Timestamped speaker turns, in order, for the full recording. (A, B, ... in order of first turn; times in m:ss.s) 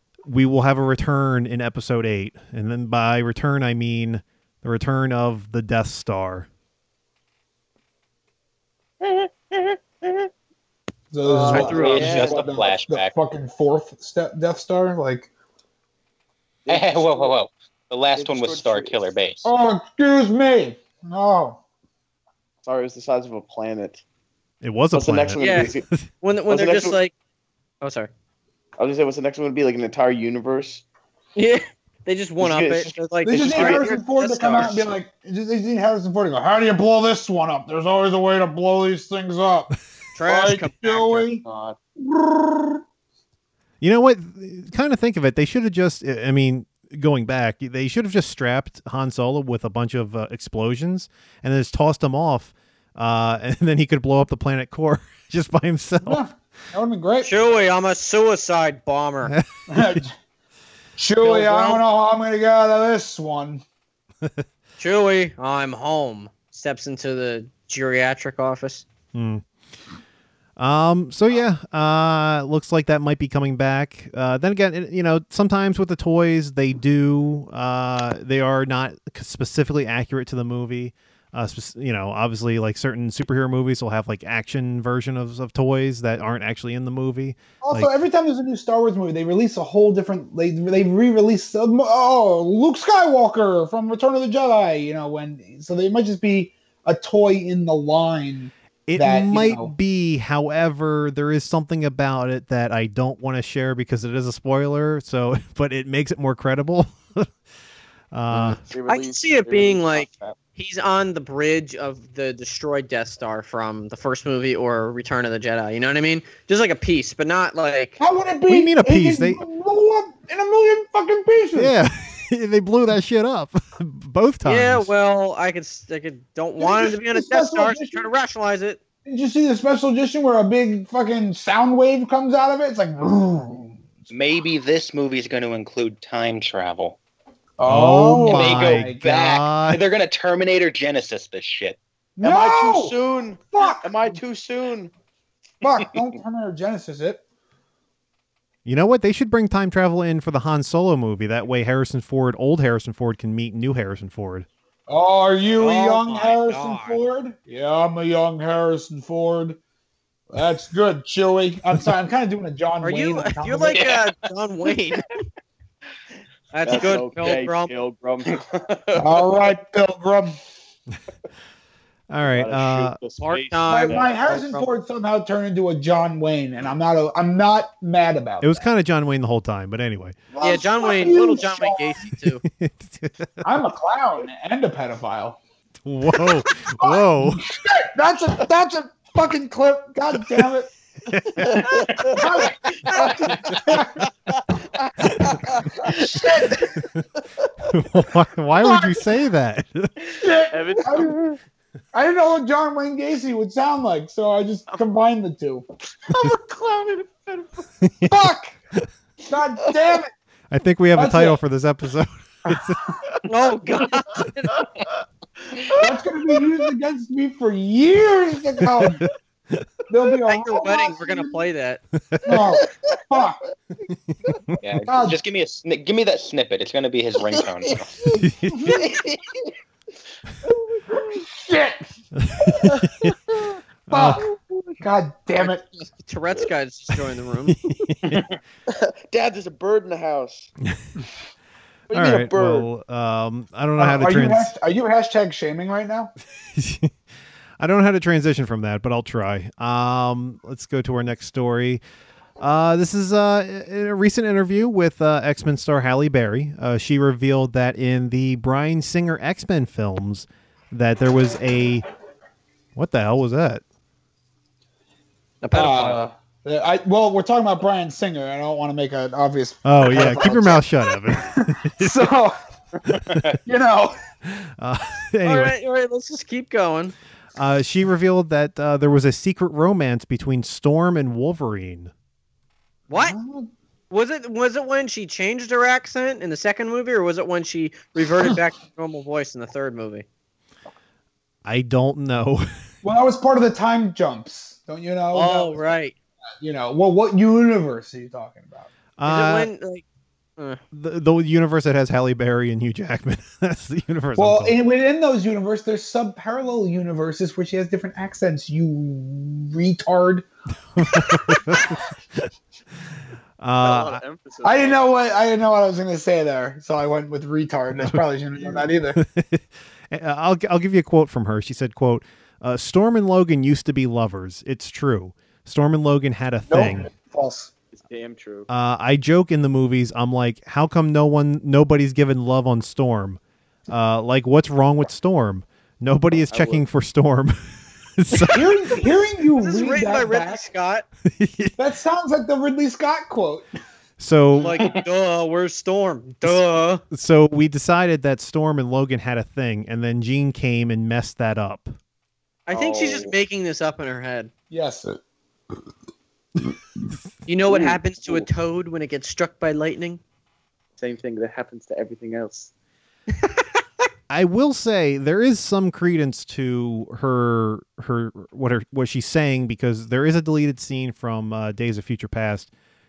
0:00.3-0:06.5 A
0:09.0-0:10.2 B
0:11.1-0:15.3 C
0:11.3-0:12.4 D
0:11.4-0:12.3 E
0:11.5-0:13.1 B
0:16.6-0:17.3 D
0:16.7-0:19.5 B
0:18.1-0:19.1 D
0:19.4-0:21.6 C
0:22.6-0:24.0 D
0:24.6-0:25.8 A
0:24.9-0:25.8 D
0:25.4-0:27.1 E
0:26.5-0:27.0 D
0:27.8-0:28.1 E
0:28.8-0:30.8 D
0:31.4-0:34.9 E
0:32.4-0:33.8 D
0:33.2-0:39.7 C
0:40.1-0:41.3 E
0:40.2-0:41.4 C
0:41.4-0:41.8 D
0:42.0-0:42.8 C
0:43.8-0:56.2 A
0:56.0-0:57.3 C
0:57.2-0:59.3 E
0:59.2-1:00.0 A
0:59.7-1:00.1 C
1:01.0-1:03.6 C
1:01.2-1:01.8 E
1:04.8-1:08.8 E
1:09.1-1:09.4 A
1:10.6-1:27.9 A
1:27.6-1:39.7 C
1:38.9-1:47.3 A
1:48.1-1:48.6 A
1:48.3-1:58.0 E
1:48.6-1:50.4 D
1:58.0-2:01.7 C
1:58.5-1:59.4 A
2:01.5-2:04.9 A
2:04.4-2:08.8 E
2:06.6-2:08.1 C
2:09.0-2:13.8 C
2:14.1-2:17.0 B
2:17.6-2:19.0 C
2:17.6-2:19.8 A
2:18.2-2:21.8 B
2:22.2-2:23.0 C
2:22.2-2:24.9 D
2:23.5-2:24.2 C
2:25.6-2:27.2 C
2:28.6-2:34.5 A
2:34.9-2:39.6 C
2:35.6-2:37.0 E
2:40.3-2:43.9 C
2:42.8-2:45.2 E
2:43.7-2:44.0 B
2:46.5-2:47.7 E
2:46.6-2:49.4 D
2:49.0-2:50.4 C
2:52.1-2:53.0 A
2:52.2-2:54.2 D
2:53.2-2:54.7 E
2:53.7-2:58.7 C
2:58.4-3:00.2 A
3:00.3-3:02.1 C
3:00.4-3:02.4 E
3:02.5-3:03.4 A
3:03.4-3:05.4 C
3:05.8-3:07.4 A
3:06.8-3:10.7 C
3:11.0-3:11.9 A
3:11.4-3:12.3 D
3:12.0-3:14.1 C
3:12.9-3:14.4 D
3:15.0-3:15.6 D
3:15.2-3:16.8 C
3:17.7-3:19.9 A
3:18.6-3:19.0 C
3:20.2-3:21.3 C
3:20.5-3:21.4 D
3:21.9-3:25.6 C
3:26.1-3:27.7 D
3:27.8-3:28.2 A
3:28.1-3:28.6 C
3:29.3-3:30.1 C
3:30.5-3:32.8 A
3:30.9-3:31.4 C
3:32.5-3:33.0 C
3:33.2-3:34.5 E
3:34.5-3:34.9 D
3:35.5-3:36.5 D
3:35.7-3:39.0 C
3:39.9-3:41.4 C
3:40.2-3:41.8 E
3:42.2-3:43.4 C
3:42.6-3:43.0 D
3:43.9-3:44.6 A
3:44.6-3:47.9 B
3:44.9-3:45.2 C
3:48.0-3:48.9 C
3:48.2-3:48.8 A
3:48.8-3:49.2 D
3:50.4-3:51.2 D
3:51.2-3:51.9 C
3:52.2-3:53.1 A
3:52.4-3:52.9 C
3:53.9-3:54.2 A
3:53.9-3:54.3 C
3:54.3-3:54.7 D
3:54.8-3:55.6 C
3:55.4-3:57.6 E
3:57.5-3:58.2 A
3:58.7-4:00.5 D
4:01.9-4:02.7 D
4:01.9-4:04.5 A
4:03.8-4:06.1 C
4:06.5-4:06.9 A
4:07.6-4:11.8 A
4:12.4-4:21.8 A
4:22.7-4:23.6 A
4:25.4-4:26.1 E
4:25.5-4:32.4 C
4:29.6-4:32.1 A
4:32.9-4:34.0 C
4:32.9-4:33.4 B
4:34.3-4:35.5 A
4:35.2-4:36.9 E
4:37.4-4:41.9 A
4:42.9-4:43.2 E
4:42.9-4:43.5 C
4:43.9-4:50.0 E
4:51.4-4:52.5 A
4:52.8-4:55.7 C
4:55.1-4:55.9 E
4:56.4-4:58.7 C
4:59.0-4:59.5 A
4:59.0-4:59.8 E
5:00.7-5:04.6 A
5:04.2-5:10.2 C
5:10.8-5:11.8 A
5:13.4-5:14.0 A
5:13.6-5:14.8 D
5:14.4-5:19.0 C
5:17.8-5:26.9 A
5:26.5-5:27.5 C
5:27.7-5:28.5 D
5:28.5-5:37.3 A
5:36.3-5:36.6 D
5:38.0-5:38.6 A
5:38.3-5:40.5 C
5:39.4-5:40.8 E
5:41.0-5:41.6 A
5:41.6-5:43.4 C
5:44.0-5:44.6 A
5:44.4-5:46.8 E
5:46.9-5:51.7 A
5:52.5-5:54.3 E
5:52.5-5:53.1 D
5:54.5-5:55.0 C
5:57.3-6:00.0 E
5:57.5-5:58.3 D
6:00.8-6:02.5 D
6:04.1-6:12.5 A